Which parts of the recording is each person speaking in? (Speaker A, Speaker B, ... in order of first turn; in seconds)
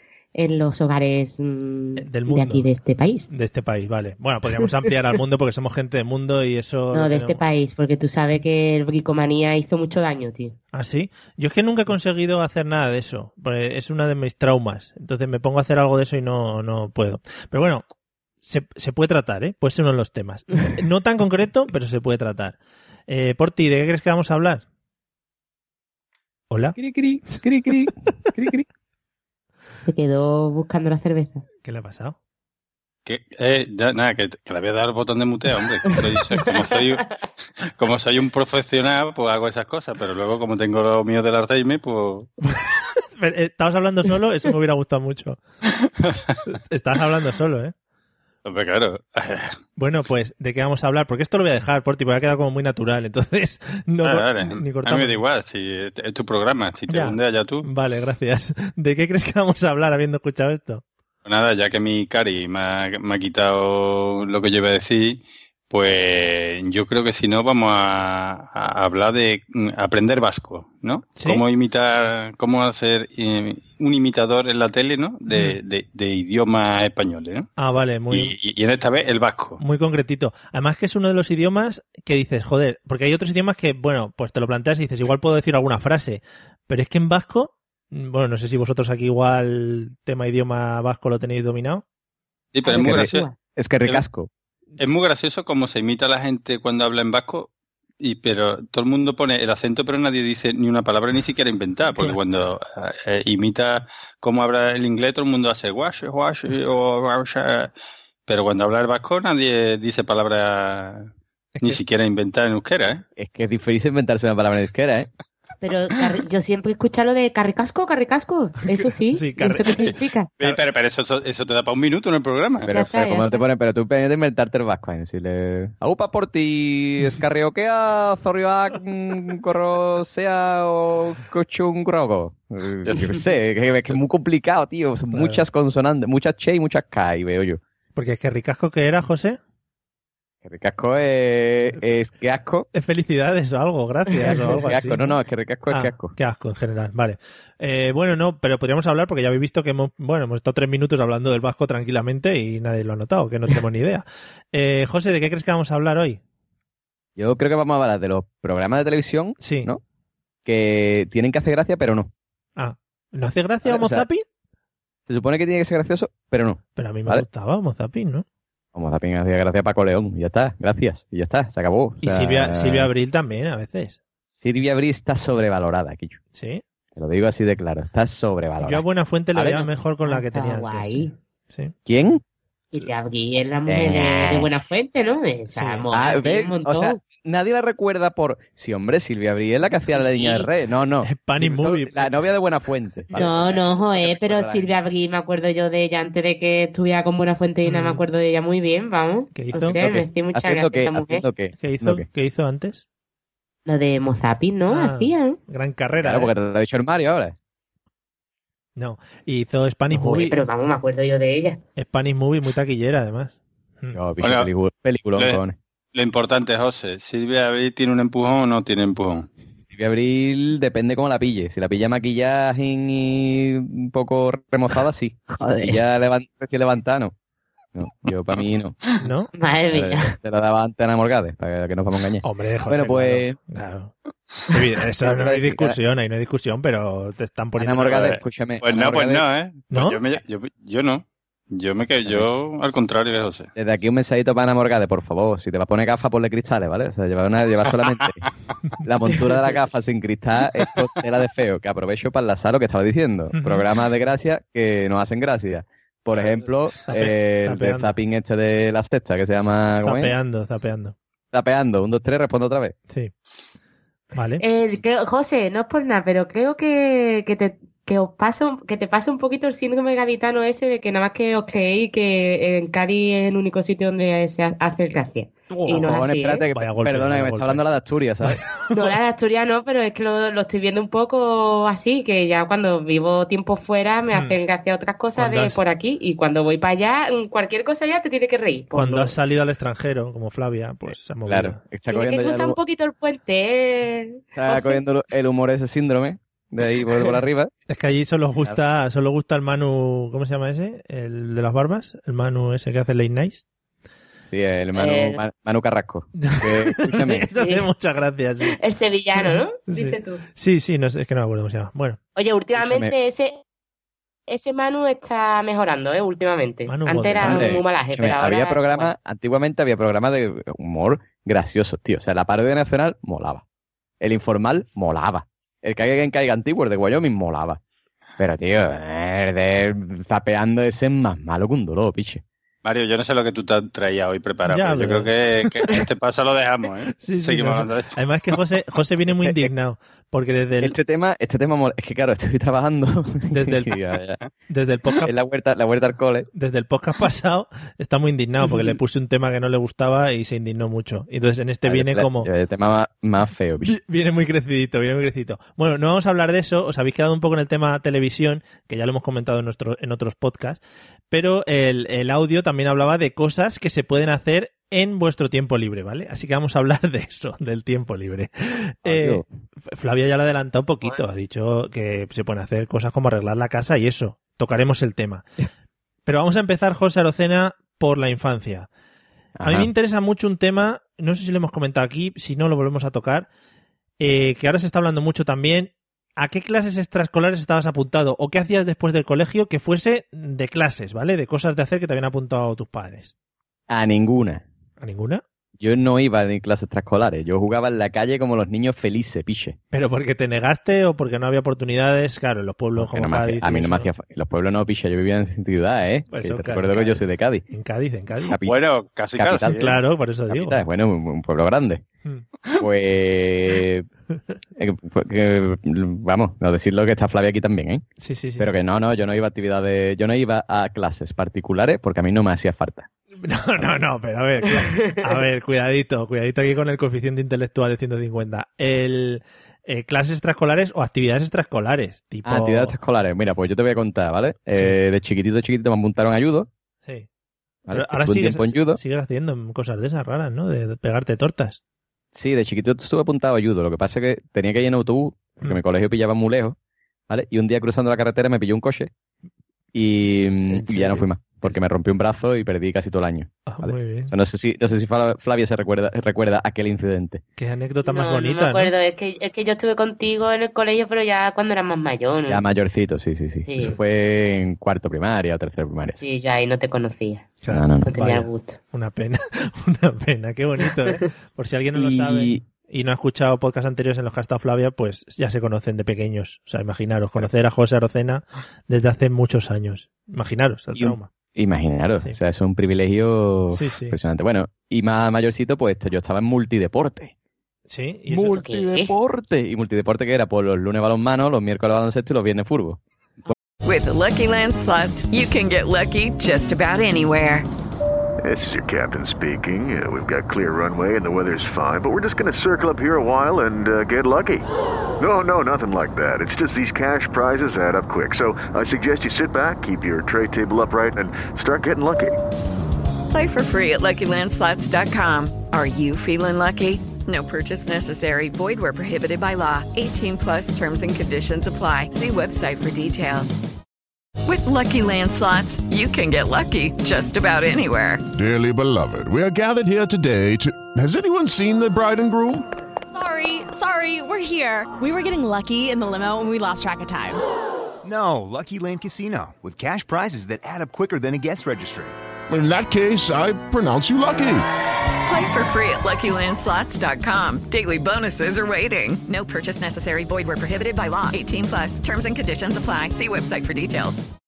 Speaker A: 0.3-3.3, 6.9-10.6, 29.9-31.4, 92.6-93.3, 115.6-120.3, 122.7-123.4, 180.1-181.1, 182.7-187.0, 189.9-190.5, 193.2-201.2, 203.7-205.4, 209.9-211.6, 229.3-230.2, 264.4-276.4, 278.7-289.1, 291.9-294.8, 304.8-305.2, 307.4-307.7, 308.5-310.2, 312.2-313.4, 314.3-318.9, 424.5-425.2, 457.9-462.4, 463.5-463.8, 466.0-467.3, 467.9-468.6, 488.3-488.9
Speaker B: 2.0-2.7, 3.3-7.4, 10.7-17.8, 18.4-22.6, 23.1-24.6, 26.5-26.8, 31.6-32.2, 42.4-45.4, 46.5-47.7, 49.8-55.2, 56.9-60.8, 71.2-71.4, 75.3-75.6, 77.6-78.3, 79.6-91.8, 101.9-102.2, 111.5-111.8, 119.1-120.6, 135.1-135.4, 138.0-139.4, 142.7-145.1, 145.7-156.2, 159.4-159.7, 162.6-164.2, 166.8-168.2, 172.0-174.0, 176.3-176.6, 178.6-181.7, 185.5-185.9, 191.0-192.1, 193.1-193.4, 197.7-198.0, 199.3-199.8, 201.6-202.8, 204.7-206.3, 208.8-210.4, 211.8-214.0, 229.0-229.3, 232.2-233.9, 234.5-238.1, 239.7-240.0, 253.3-253.7, 256.9-257.9, 259.8-260.9, 264.1-264.4, 275.5-276.0, 276.5-277.6, 278.2-278.8, 285.2-285.6, 288.8-291.6, 297.7-303.4, 306.2-308.6, 309.2-312.0, 316.7-317.6, 334.5-335.7, 337.0-340.8, 343.3-343.7, 344.5-345.1, 346.4-352.3, 353.6-360.6, 361.1-375.3, 376.1-378.7, 379.4-383.3, 384.0-393.1, 394.8-395.2, 399.7-403.9, 406.1-407.0, 407.5-408.4, 409.5-410.6, 418.0-418.5, 423.2-432.8, 437.7-441.6, 450.5-451.6, 453.5-454.1, 457.4-458.7, 467.4-481.1, 483.5-484.0, 487.7-488.4
Speaker C: 26.8-28.7, 92.7-94.3, 113.2-115.1, 122.6-137.6, 140.4-142.7, 144.2-146.1, 157.2-159.8, 160.4-162.1, 163.6-164.1, 165.1-167.2, 168.7-172.9, 174.3-176.2, 176.9-179.7, 181.9-182.2, 183.7-184.5, 185.9-194.7, 199.8-202.1, 206.0-207.3, 213.9-215.6, 219.7-227.1, 227.8-228.8, 229.7-233.4, 235.0-235.8, 237.6-239.3, 243.6-248.3, 248.8-260.1, 261.3-262.8, 275.6-278.4, 291.3-292.6, 294.4-297.5, 304.3-307.3, 312.6-312.9, 317.2-323.4, 324.0-327.6, 328.2-332.2, 339.1-339.5, 340.6-344.2, 345.0-346.3, 351.6-353.7, 368.8-369.3, 379.4-379.7, 393.7-394.4, 395.6-399.6, 402.8-407.4, 408.3-408.6, 409.1-409.8, 410.3-411.8, 412.5-413.9, 414.6-417.9, 418.4-422.9, 432.2-436.5, 437.7-438.8, 442.1-446.6, 447.1-448.9, 449.7-457.2, 462.3-466.0, 467.5-468.0, 471.7-472.4, 480.7-487.1, 488.1-492.8
Speaker D: 33.1-42.3, 46.0-46.4, 48.5-49.6, 54.0-57.7, 61.3-77.5, 78.1-79.6, 92.5-93.3, 94.8-97.5, 98.0-107.7, 108.3-111.1, 111.6-113.0, 120.4-122.7, 132.9-133.2, 214.2-214.5, 215.9-219.3, 237.9-243.5, 247.8-248.1, 332.6-338.0, 408.4-409.8
Speaker E: 493.6-497.5, 513.1-523.4, 524.2-528.0, 545.0-554.1
Speaker F: 498.2-504.5, 505.0-512.1
Speaker G: 528.1-532.5, 542.3-544.5
Speaker H: 532.9-537.2
Speaker I: 537.8-542.0